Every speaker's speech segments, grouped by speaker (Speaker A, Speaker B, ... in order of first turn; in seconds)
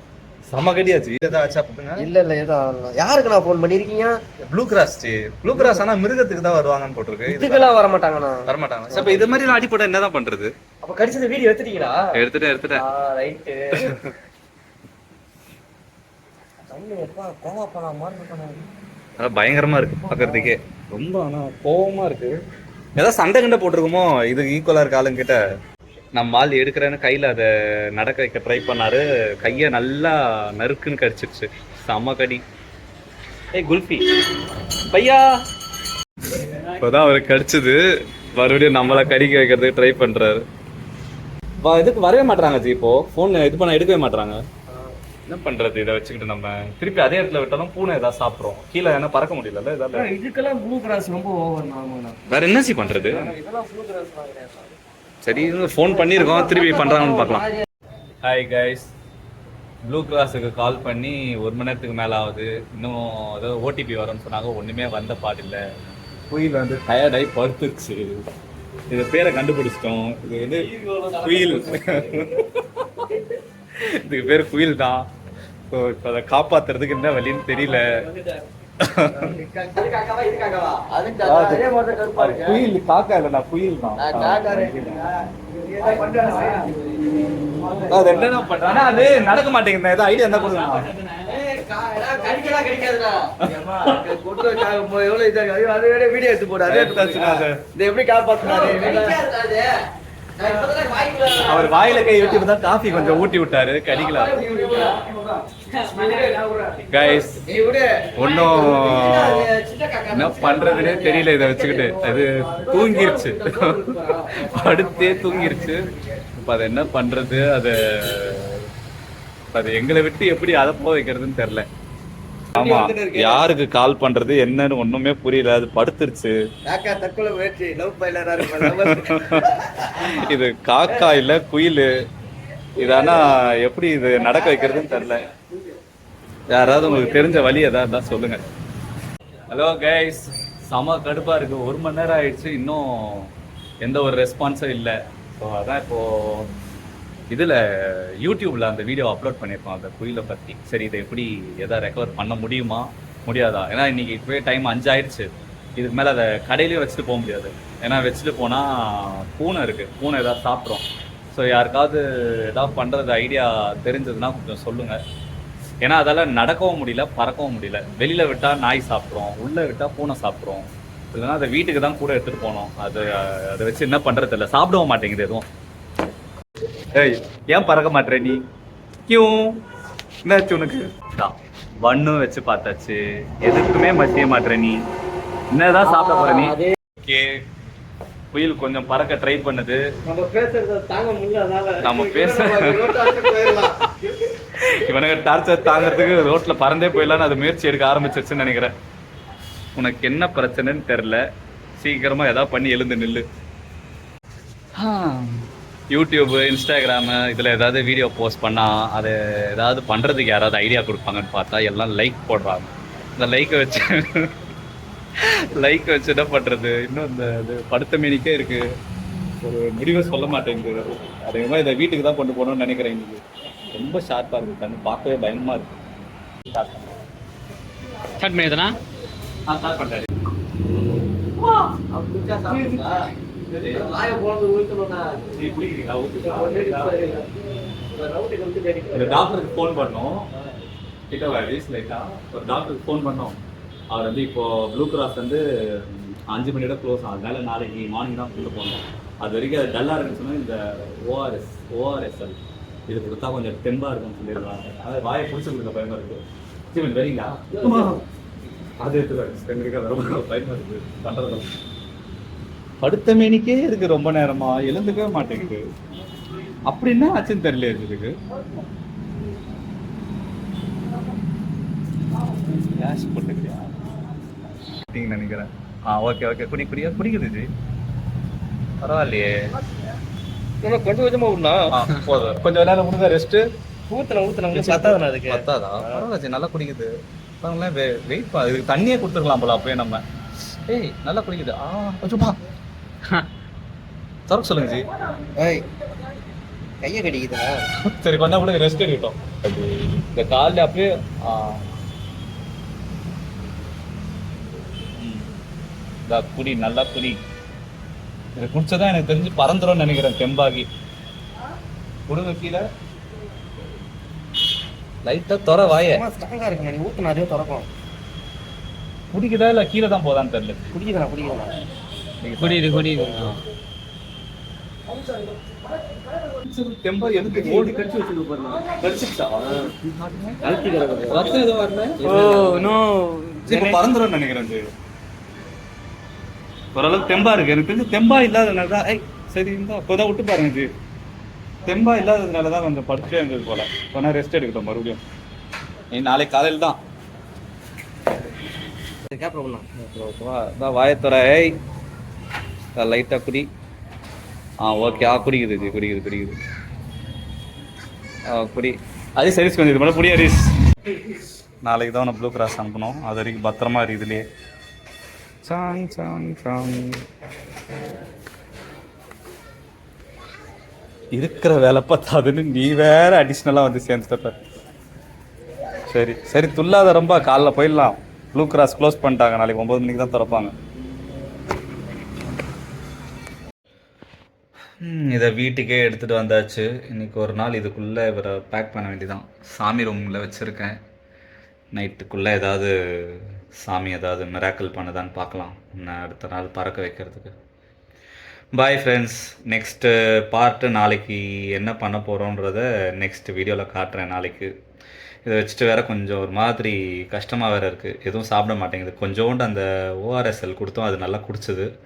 Speaker A: 0.5-2.1, 4.5-7.7, 8.5-10.5, 12.1-12.8, 19.2-22.4, 23.0-25.4, 26.1-32.4, 33.6-34.1, 34.9-35.3, 36.4-40.4, 41.6-44.4, 45.3-50.1, 52.3-53.3, 55.2-57.5, 58.2-58.9, 59.9-65.6, 66.3-68.1, 68.9-73.1, 73.8-75.1, 75.7-78.0, 78.8-79.3, 81.2-85.0, 87.9-90.9, 93.4-94.1, 96.7-97.7, 98.5-99.0, 101.4-104.5, 106.9-107.5, 108.2-109.5, 110.1-118.7, 119.5-121.7, 122.5-126.3, 128.4-131.9, 132.8-135.3, 136.5-138.4, 139.5-146.5, 147.3-165.0, 165.8-175.5, 176.9-178.4, 179.1-179.6, 180.2-184.8, 185.5-187.4, 188.3-189.8, 191.8-193.7, 194.6-198.7, 199.8-201.2, 201.8-203.2, 204.8-214.3, 215.2-218.7, 219.4-223.2, 223.7-225.8, 226.5-226.9, 229.5-230.1, 231.4-231.8, 232.5-232.9, 233.5-233.9, 235.3-237.1, 238.9-240.3, 241.1-243.4, 243.9-258.0, 258.8-261.5, 262.8-265.6, 266.7-268.1, 272.6-273.8, 274.9-277.5, 278.8-279.3, 281.7-283.4, 284.5-290.0, 290.7-292.4, 294.3-294.9, 297.9-301.6, 305.0-305.3, 306.1-307.2, 308.4-310.7, 312.1-312.6, 315.1-316.1, 319.1-320.7, 322.2-323.4, 326.4-328.1, 328.8-330.5, 331.1-332.2, 333.5-334.7, 336.8-340.7, 341.6-345.0, 345.9-346.8, 349.8-351.5, 352.8-353.5, 354.6-356.4, 358.3-360.5, 361.6-364.2, 365.4-367.0, 371.1-374.4, 375.9-380.5, 384.8-390.8, 391.7-397.3, 398.6-404.5, 405.2-411.7
Speaker B: 2.0-4.2, 5.5-5.9, 7.3-9.4, 10.8-12.0, 12.8-13.9, 16.7-18.7, 20.0-20.5, 49.9-52.2, 52.8-54.8, 55.6-57.5, 70.8-72.2, 79.1-82.7, 84.0-89.3, 91.1-99.7, 100.4-102.4, 104.0-116.0, 122.5-123.5, 126.7-130.2, 132.8-133.3, 136.6-137.3, 186.0-186.6, 190.1-193.7, 231.9-233.1, 233.7-235.3, 236.2-239.7, 280.6-281.9, 283.9-286.1, 295.4-295.7, 296.8-297.6, 315.6-317.7, 320.7-321.6, 327.3-328.8, 329.4-329.7, 330.4-331.4, 332.0-332.8, 349.1-349.7
Speaker C: 98.6-99.2, 228.2-228.8, 322.4-323.4, 332.0-333.8